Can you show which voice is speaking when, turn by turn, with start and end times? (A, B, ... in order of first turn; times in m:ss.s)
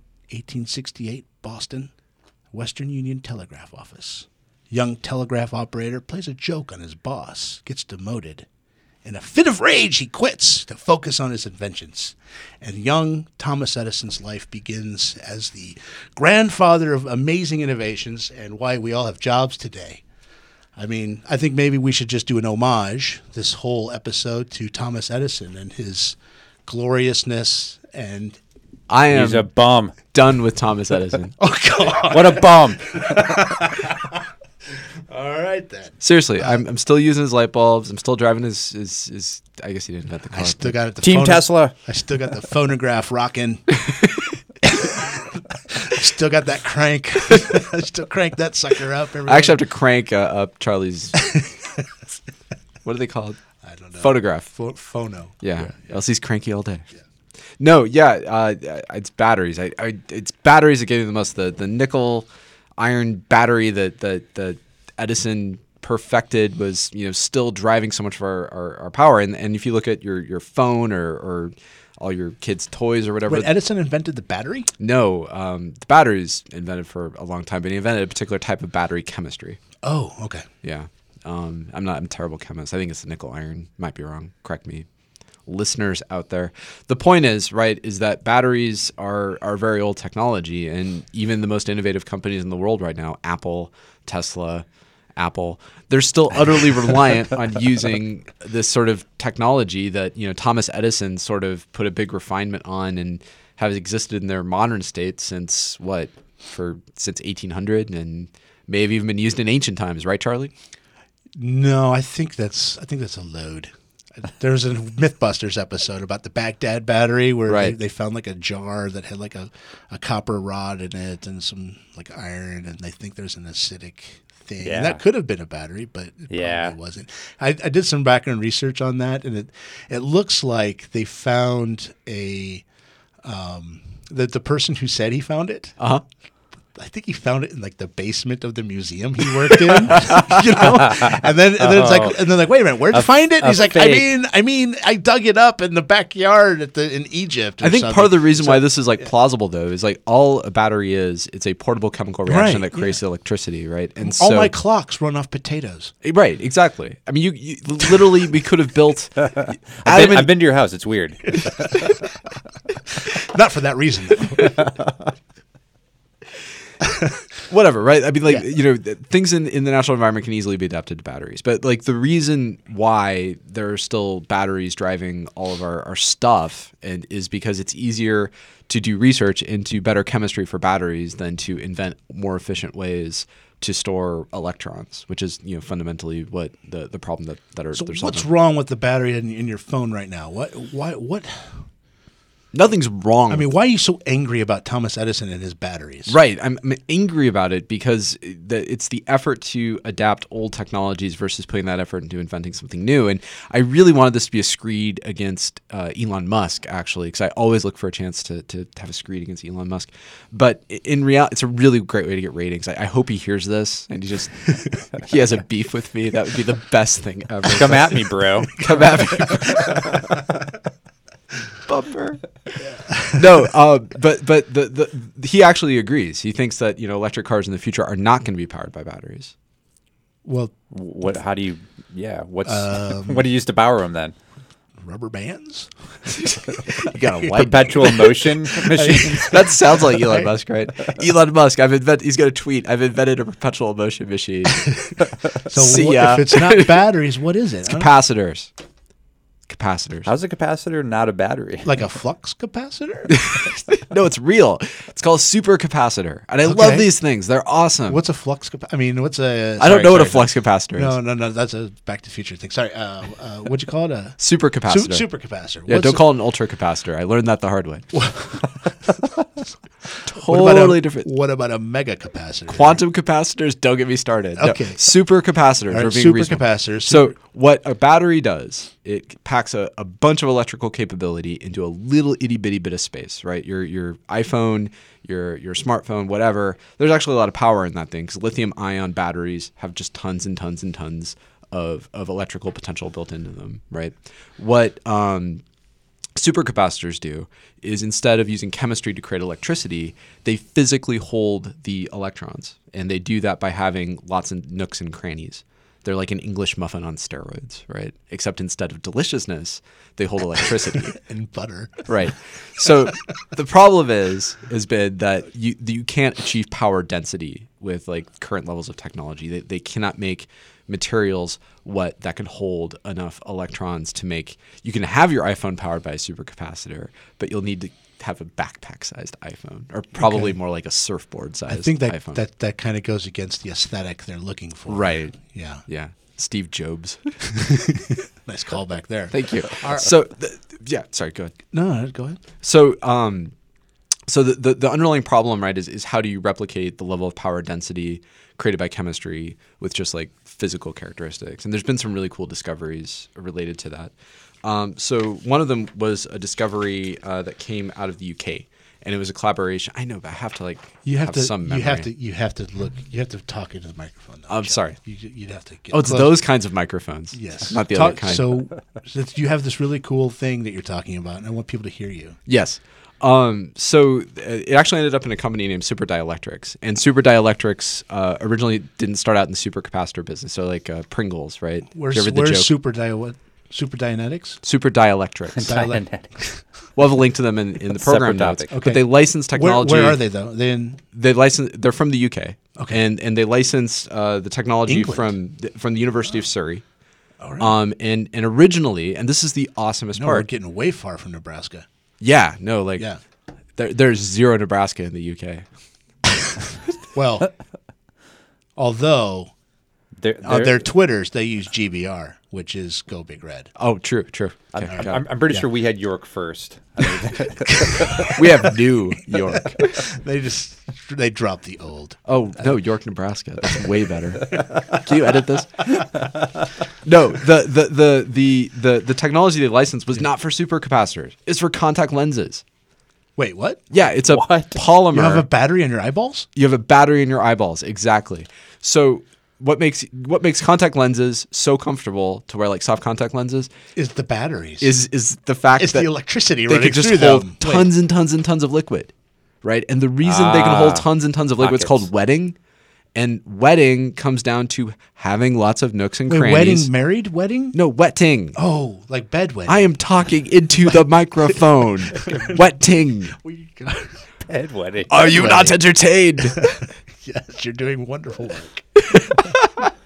0:00.3-0:01.9 A
0:02.5-0:08.5 A
0:09.0-0:20.0 A
0:20.8-0:28.4 A
0:28.9-0:29.5 B
0:29.1-0:30.0 C
0:30.1-0:31.4 B
0:31.4-0:34.2 A
0:32.1-0:33.0 C
0:35.1-0:36.6 A
0:36.0-0:40.8 B
0:40.3-0:43.8 A
0:41.0-0:41.7 C
0:44.6-0:49.6 A
0:49.2-0:51.2 B
0:51.2-0:51.7 A
0:52.8-0:53.4 B
0:53.6-0:55.9 A
0:54.0-0:54.5 B
0:55.4-0:56.8 B
0:57.6-1:02.3 B
1:02.8-1:13.5 B
1:13.2-1:14.7 A
1:14.8-1:19.6 B
1:19.8-1:20.4 A
1:20.6-1:24.8 B
1:25.5-1:34.6 B
1:35.2-1:50.5 B
1:51.4-1:53.7 A
1:54.2-2:12.6 A
1:57.5-1:57.8 B
2:04.6-2:05.0 C
2:06.3-2:06.8 C
2:13.2-2:15.8 A
2:16.8-2:28.6 A
2:20.6-2:22.3 C
2:22.9-2:24.1 C
2:27.6-2:34.5 B
2:32.2-2:33.0 A
2:34.0-2:35.9 A
2:36.0-2:40.3 B
2:39.8-2:41.7 C
2:43.0-2:44.6 A
2:46.8-2:47.1 A
2:47.5-3:08.3 B
3:07.7-3:11.6 A
3:12.5-3:13.5 B
3:13.3-3:16.2 A
3:16.1-3:40.2 B
3:37.5-3:38.5 C
3:41.6-3:42.3 B
3:42.6-3:43.2 A
3:43.1-3:49.3 B
3:50.2-3:50.5 A
3:50.7-3:54.1 C
3:52.4-3:53.2 A
3:54.8-3:55.7 A
3:56.1-3:58.2 B
3:56.7-3:57.9 A
3:57.3-3:59.4 C
3:58.5-4:00.3 A
3:59.2-4:06.8 B
4:05.4-4:07.9 A
4:07.6-4:08.5 B
4:09.5-4:10.1 B
4:10.0-4:11.8 C
4:11.6-4:13.2 A
4:13.1-4:18.0 B
4:16.4-4:16.9 A
4:17.9-4:26.0 A
4:19.6-4:21.0 B
4:24.2-4:25.0 B
4:25.6-4:28.0 B
4:27.9-4:29.0 A
4:30.0-4:32.8 A
4:30.0-4:31.1 B
4:32.5-4:55.4 B
4:34.4-4:34.9 A
4:35.7-4:37.1 A
4:56.2-5:11.0 B
5:11.0-5:11.9 A
5:11.9-5:32.2 B
5:30.0-5:30.4 A
5:31.5-5:35.6 A
5:34.7-5:37.6 B
5:37.5-5:39.9 A
5:39.1-5:41.4 B
5:41.5-5:42.2 A
5:42.4-5:43.3 B
5:44.1-5:53.9 B
5:54.4-6:01.9 B
6:00.8-6:06.2 A
6:04.3-6:04.8 B
6:05.7-6:08.4 B
6:07.1-6:12.2 A
6:12.3-6:22.5 B
6:21.7-6:24.4 A
6:24.4-6:25.6 B
6:25.3-6:26.1 C
6:25.4-6:26.4 A
6:26.8-6:30.0 B
6:27.7-6:28.6 C
6:28.5-6:30.8 A
6:30.9-6:36.6 B
6:34.7-6:35.1 A
6:37.2-6:37.5 A
6:37.4-6:40.2 B
6:39.9-6:41.6 A
6:42.0-6:42.9 B
6:43.6-6:45.4 B
6:46.9-6:47.3 A
6:48.6-6:49.3 A
6:50.0-6:50.6 C
6:50.2-6:53.5 A
6:53.6-6:55.0 B
6:54.5-6:58.1 C
6:54.7-6:55.4 A
6:57.6-6:58.1 A
6:58.0-6:59.8 B
6:59.5-7:02.4 A
7:02.0-7:06.1 B
7:06.8-7:12.4 B
7:13.2-7:13.6 A
7:13.7-7:15.2 B
7:14.1-7:14.6 C
7:14.9-7:16.3 A
7:16.4-7:23.5 B
7:23.7-7:24.7 A
7:24.6-7:25.9 B
7:25.6-7:27.7 A
7:26.5-7:28.9 B
7:29.4-7:32.3 B
7:30.0-7:30.9 C
7:31.4-7:31.9 C
7:32.9-7:36.7 B
7:36.1-7:37.6 A
7:37.5-7:38.4 B
7:38.3-7:39.7 A
7:39.5-7:43.2 B
7:41.9-7:42.4 A
7:43.2-7:44.1 A
7:44.3-7:45.3 C
7:44.9-7:46.4 B
7:44.9-7:45.6 A
7:46.3-7:48.8 A
7:48.9-7:49.2 B